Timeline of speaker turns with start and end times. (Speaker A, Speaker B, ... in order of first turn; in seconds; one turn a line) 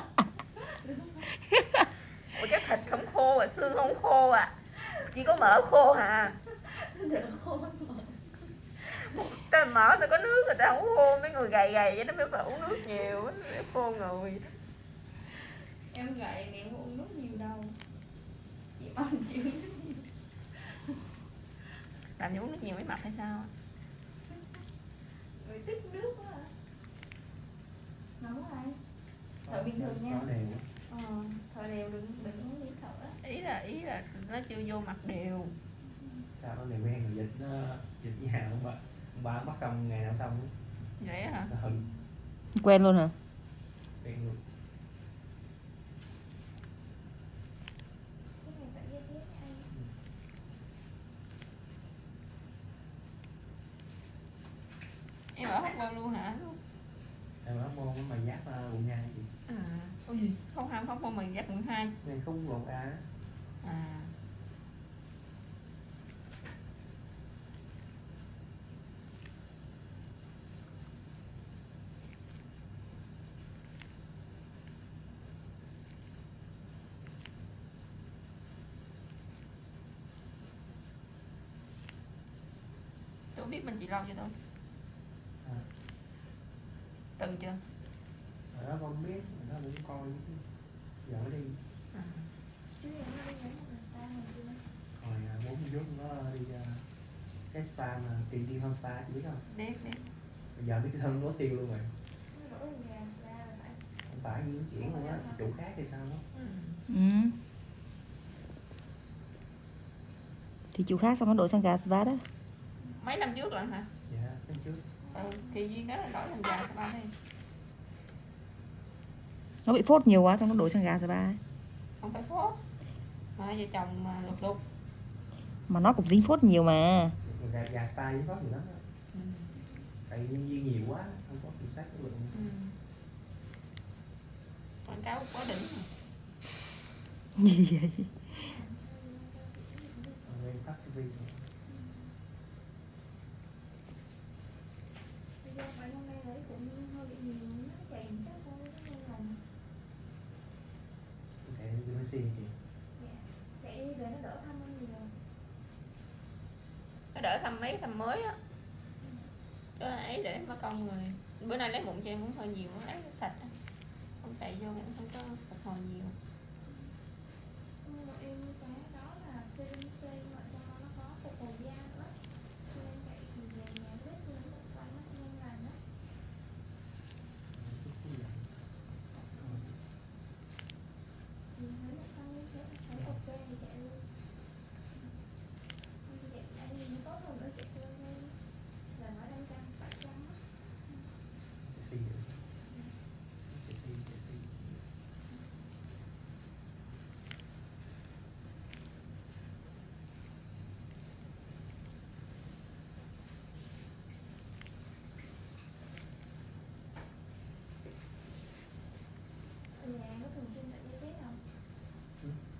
Speaker A: 0.6-1.3
Speaker B: 2.2-6.4
Speaker A: 6.5-9.1
Speaker B: 9.0-14.5
Speaker A: 15.4-17.8
Speaker A: 18.7-20.9
Speaker B: 22.2-23.5
Speaker A: 24.2-26.5
Speaker A: 28.2-28.8
Speaker A: 29.4-30.2
Speaker C: 29.4-30.7
Speaker A: 30.9-33.2
Speaker B: 33.2-35.5
Speaker A: 35.8-36.3
Speaker C: 36.4-40.5
Speaker B: 41.0-41.5
Speaker C: 41.5-41.9
Speaker D: 42.5-43.1
Speaker C: 44.0-44.4
Speaker A: 48.4-49.7
Speaker B: 55.3-56.6
Speaker C: 57.4-59.3
Speaker B: 59.5-62.0
Speaker C: 62.0-63.1
Speaker B: 63.6-64.2
Speaker B: 83.3-84.4
Speaker C: 85.4-85.7
Speaker B: 87.2-87.6
Speaker C: 88.5-90.5
Speaker C: 91.0-91.6
Speaker B: 91.9-92.3
Speaker A: 92.7-94.7
Speaker C: 94.9-96.9
Speaker C: 97.5-99.5
Speaker B: 99.5-100.0
Speaker C: 100.5-101.9
Speaker A: 102.3-103.9
Speaker C: 104.0-106.2
Speaker A: 104.8-105.6
Speaker B: 106.3-106.8
Speaker D: 106.9-107.4
Speaker D: 110.7-112.2
Speaker B: 113.0-113.9
Speaker C: 114.1-114.8
Speaker A: 115.0-115.5
Speaker B: 115.1-117.1
Speaker D: 119.6-121.4
Speaker B: 122.0-122.6
Speaker B: 123.3-124.6
Speaker D: 125.7-127.2
Speaker C: 127.2-128.8
Speaker B: 129.1-129.5
Speaker A: 129.5-129.9
Speaker C: 130.0-132.4
Speaker B: 132.3-132.8
Speaker B: 134.8-135.9
Speaker D: 137.3-138.1
Speaker A: 138.3-140.4
Speaker C: 140.2-141.5
Speaker A: 141.7-142.1
Speaker A: 145.4-149.4
Speaker C: 151.4-152.6
Speaker A: 152.9-155.2
Speaker B: 157.1-158.4
Speaker A: 159.0-159.3
Speaker B: 159.8-163.6
Speaker B: 164.2-166.2
Speaker A: 166.6-166.9
Speaker A: 167.8-175.8
Speaker C: 177.5-178.6
Speaker A: 179.4-179.6
Speaker C: 179.4-179.8
Speaker A: 181.5-184.0
Speaker C: 182.9-183.2
Speaker A: 184.9-185.2
Speaker A: 186.0-188.4
Speaker A: 188.9-191.1
Speaker C: 191.6-192.4
Speaker A: 192.6-192.9
Speaker C: 193.4-194.8
Speaker A: 209.7-211.4